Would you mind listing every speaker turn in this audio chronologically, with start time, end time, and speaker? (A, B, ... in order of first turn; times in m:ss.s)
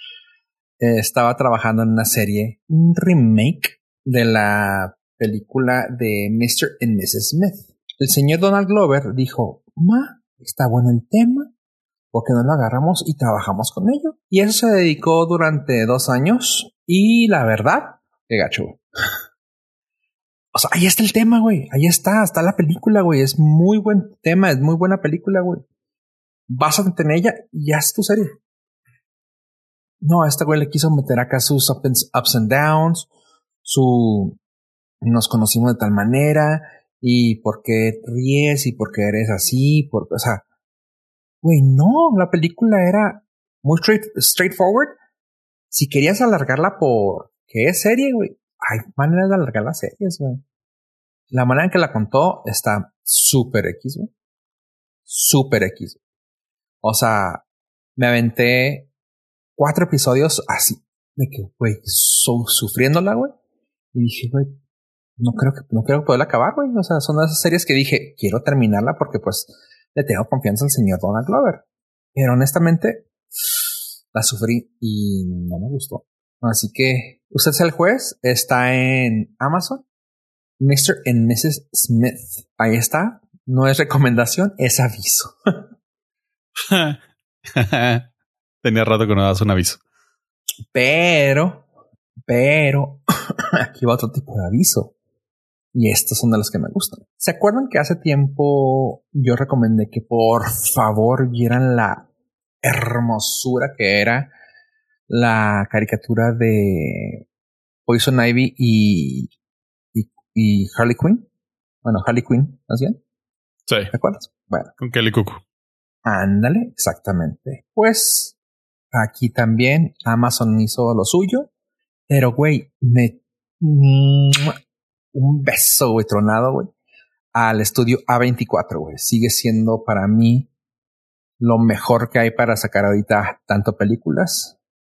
0:00.8-0:11.5 A
0:12.1-0:18.8 A
0:20.5-0:25.6 A
0:26.5-0:28.4 A
0:30.0-0:33.1 A
0:33.6-0:34.4 A
0:35.0-0:40.4 A
0:41.4-0:45.0 A
0:45.7-0:50.4 A
0:51.3-0:54.1 A
0:55.1-0:56.0 A
0:56.8-0:57.4 A
0:58.0-0:58.9 A
0:59.6-1:03.3 A
1:03.9-1:04.6 A
1:05.2-1:11.6 A
1:12.1-1:13.1 A
1:14.1-1:19.8 A
1:20.6-1:25.4 A
1:26.6-1:27.0 B
1:27.5-1:28.0 B
1:28.6-1:29.8 B
1:30.7-1:31.6 A
1:32.3-1:34.9 A
1:35.7-1:42.1 A
1:42.6-1:44.3 A
1:45.1-1:47.2 A
1:47.9-1:49.3 A
1:49.9-1:51.2 A
1:51.8-1:53.0 A
1:53.7-1:53.9 B
1:53.9-1:54.7 A
1:54.8-1:55.4 B
1:56.0-1:58.4 A
1:58.9-2:01.5 A
2:02.1-2:04.6 A
2:05.1-2:06.7 A
2:07.3-2:10.5 A
2:11.4-2:14.6 A